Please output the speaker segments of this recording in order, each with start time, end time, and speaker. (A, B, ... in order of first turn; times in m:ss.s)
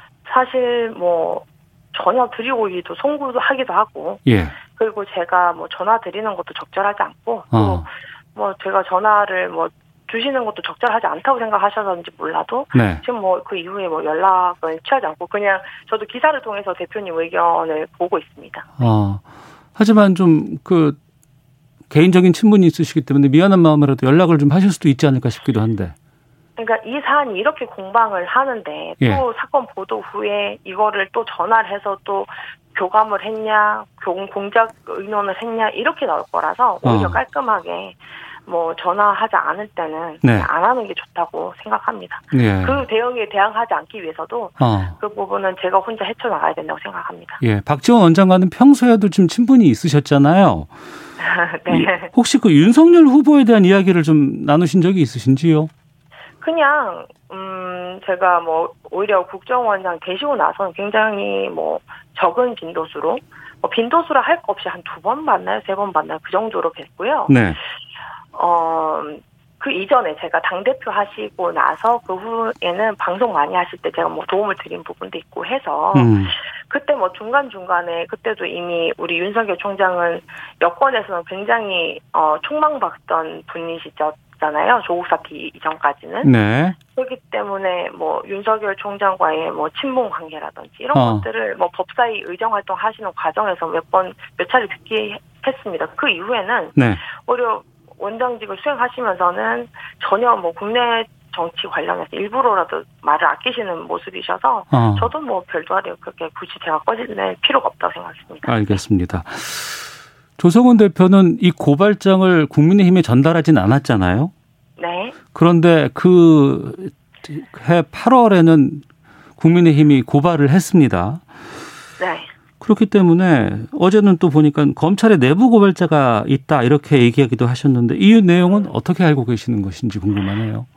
0:00.3-0:18.8 A
0:04.3-0:04.6 B
0:07.5-0:07.9 B
0:12.7-0:13.0 B
0:18.8-0:19.2 B
0:19.8-0:21.0 B
0:21.9-0:26.0 B
0:26.6-0:47.4 A
0:36.8-0:37.2 B
0:40.2-0:40.5 B
0:42.3-0:42.8 B
0:44.6-0:45.0 B
0:47.4-0:50.7 B
0:51.2-0:52.1 A
0:51.7-0:55.7 B
0:56.4-1:07.4 A
1:07.3-1:07.6 B
1:08.3-1:26.3 A
1:15.9-1:16.3 B
1:26.2-1:26.8 B
1:26.9-1:48.5 A
1:30.9-1:31.3 B
1:36.8-1:37.0 B
1:44.7-1:45.1 B
1:48.5-1:54.3 B
1:54.8-1:55.2 A
1:55.3-1:58.8 B
1:59.4-2:01.2 B
2:02.0-2:02.3 A
2:02.6-2:10.7 B